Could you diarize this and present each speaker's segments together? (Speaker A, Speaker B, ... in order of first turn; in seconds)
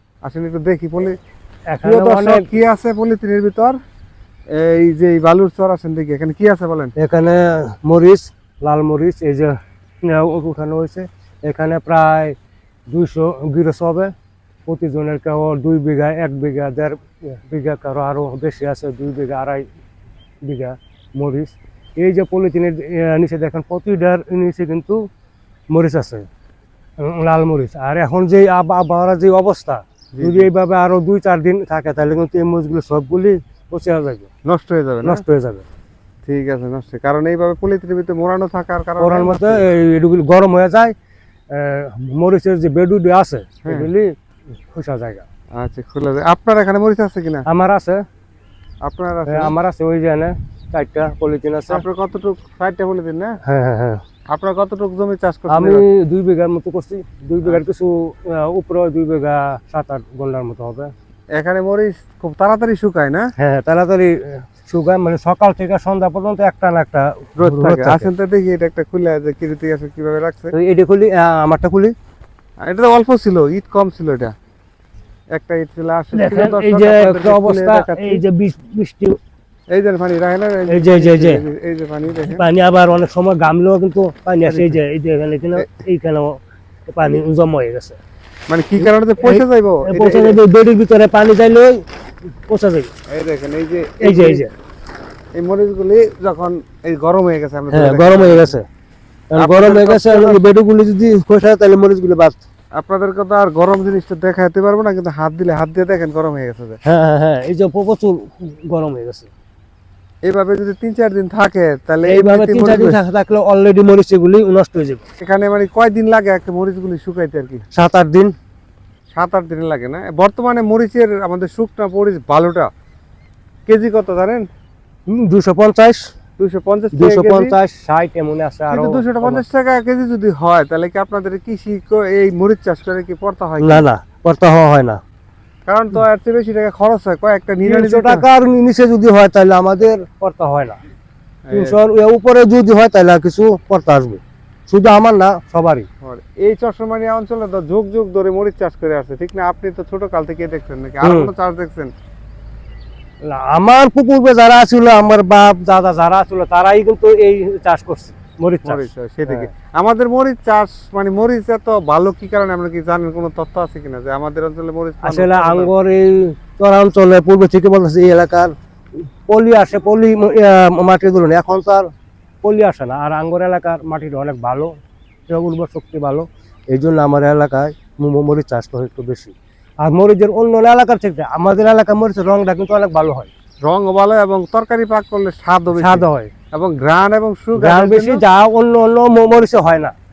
Speaker A: 0.2-1.2, 1.8-3.8, 4.5-6.9, 30.1-30.5, 34.5-35.2, 36.2-39.6, 45.5-47.4, 48.8-49.5, 51.7-53.4, 54.3-55.8, 61.3-63.3, 67.4-70.5, 72.6-74.3, 75.3-78.2, 79.7-82.4, 84.5-84.8, 88.5-90.4, 93.1-94.5, 95.3-98.5, 99.3-100.4, 102.7-106.8, 110.2-113.0, 115.2-117.7, 119.1-122.7, 123.7-124.5, 126.4-127.5, 128.7-133.8, 135.7-138.2, 141.4-141.8, 146.0-151.9, 158.6-165.7, 183.6-188.2
Speaker B: 1.7-2.5, 7.0-12.3, 12.9-14.1, 14.7-19.6, 20.4-25.0, 25.7-26.2, 27.0-34.3, 35.0-35.6, 39.0-40.9, 41.5-44.1, 44.7-45.2, 47.5-48.0, 49.3-51.8, 53.4-54.0, 55.5-60.9, 63.4-68.1, 70.5-71.9, 76.1-79.2, 80.7-81.4, 82.2-88.0, 88.8-91.8, 92.5-92.9, 94.0-94.5, 97.7-98.6, 99.3-102.4, 106.8-109.3, 112.0-115.0, 117.7-118.3, 125.1-126.1, 126.9-129.4, 133.6-135.0, 137.6-140.8, 141.5-145.9, 151.0-151.3, 153.2-159.5, 165.0-168.5, 169.3-171.9, 172.4-174.8, 175.3-183.3, 185.8-186.3, 187.6-189.9